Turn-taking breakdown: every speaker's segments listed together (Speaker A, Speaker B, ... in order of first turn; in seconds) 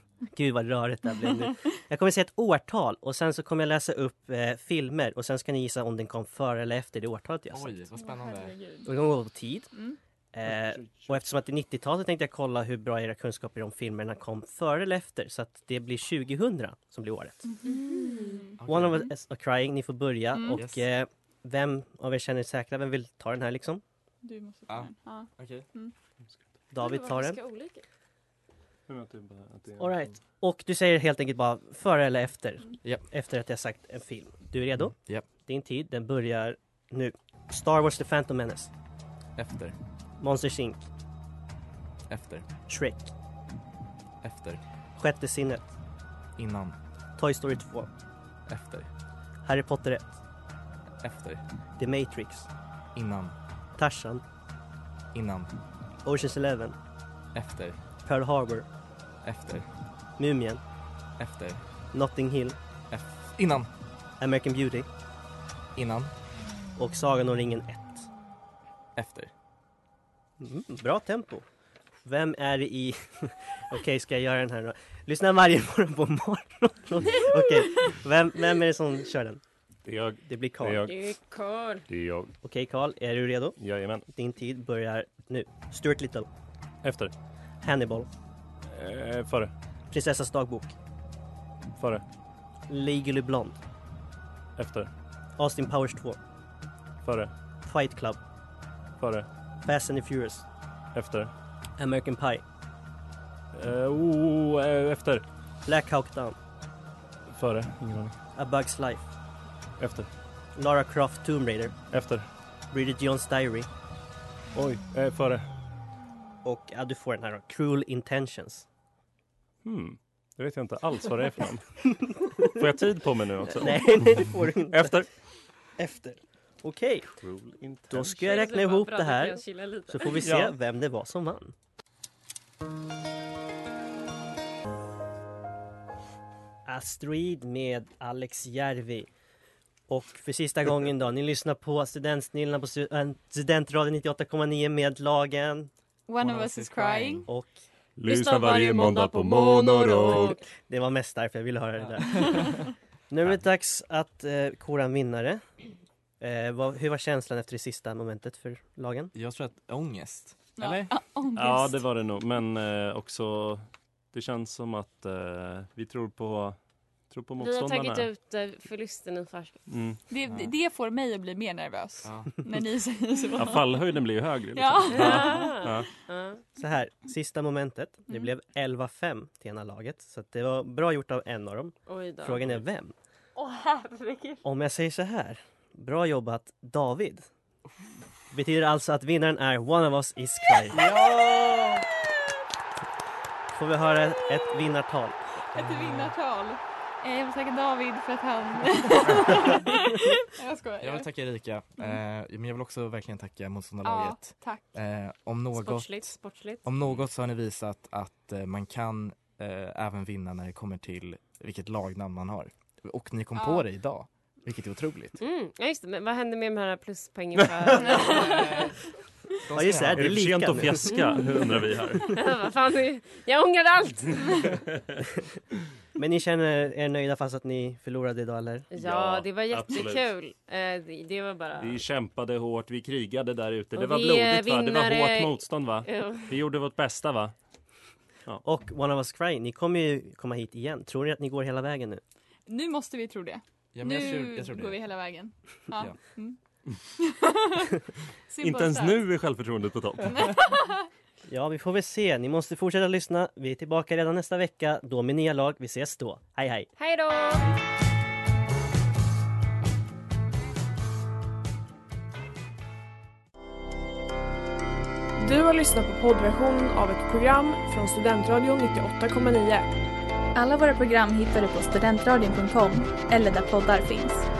Speaker A: 0.2-7.8, 8.8-9.7, 10.3-17.5, 18.6-23.8, 26.7-27.4, 29.8-38.7, 40.2-40.8, 42.7-43.1, 45.0-45.7, 47.2-47.9, 49.5-50.2, 51.8-52.5, 53.8-54.2, 56.0-56.8, 58.0-58.7, 60.2-60.6, 61.9-62.6, 64.2-64.9, 66.8-68.0, 70.4-71.5, 72.0-79.4, 80.3-80.9, 82.4-83.6, 84.1-86.3, 87.6-88.1, 89.9-90.8, 92.7-93.6, 95.4-96.2, 97.7-98.2, 99.7-100.5, 101.8-102.4, 105.7-106.4, 108.4-109.1, 110.6-111.8, 112.7-113.7, 116.4-118.7, 123.6-125.0, 125.8-127.2, 127.9-131.5, 136.7-139.1, 139.9-145.7, 147.3-147.5, 150.6-155.4, 156.2-159.1, 176.6-182.9, 184.4-187.3, 188.3-191.0, 193.5-195.2, 219.5-220.9, 226.0-228.7, 238.4-242.0, 251.3-256.7
Speaker B: 7.5-8.6, 18.6-19.1, 20.6-20.8, 24.7-25.7, 34.8-35.3, 39.4-39.8, 42.1-42.5, 44.2-44.6, 46.4-46.8, 48.5-48.9, 51.0-51.4, 53.0-53.4, 55.1-55.6, 57.4-57.8, 59.2-59.7, 61.2-61.6, 62.9-63.7, 65.8-66.1, 69.0-69.3, 146.2-147.3, 151.8-152.5, 159.1-160.9, 170.3-170.5, 172.0-172.3, 195.8-196.1, 200.8-215.2, 218.2-218.8, 219.5-220.2, 243.7-244.8
Speaker C: 8.0-8.9, 17.5-18.6, 20.4-20.6, 24.2-25.9, 146.1-147.3, 160.6-161.8, 170.1-174.0, 174.6-175.4, 183.4-184.4, 191.0-191.7, 195.5-201.1, 203.8-204.6, 213.3-213.6, 217.9-218.4, 242.5-246.4, 247.0-247.8, 248.3-249.1, 250.1-250.9
Speaker D: 10.4-11.4, 28.9-30.1, 79.8-81.1, 81.9-82.3, 83.6-84.0, 86.8-87.1, 88.7-89.5, 91.8-92.0, 94.6-94.9, 97.0-97.3, 99.0-99.3, 101.0-101.3, 103.5-105.2, 107.3-108.2, 109.8-110.1, 111.9-112.2, 114.5-115.5, 119.6-125.1, 127.2-128.1, 130.2-130.5, 148.0-150.4, 161.3-166.6, 167.1-168.1, 169.7-170.0, 173.4-175.9, 217.4-217.8, 220.0-222.2, 224.4-225.0, 228.8-230.0, 231.6-237.3, 248.4-250.3
Speaker E: 17.6-18.6, 26.8-27.8, 80.9-81.9, 128.1-130.3, 148.0-150.4, 167.4-169.7, 174.9-176.5, 181.9-182.5, 205.5-206.7, 215.2-218.7, 220.9-224.6, 228.7-231.8, 233.8-236.4, 256.8-257.5
Speaker F: 265.2-269.7
Speaker G: 270.4-274.3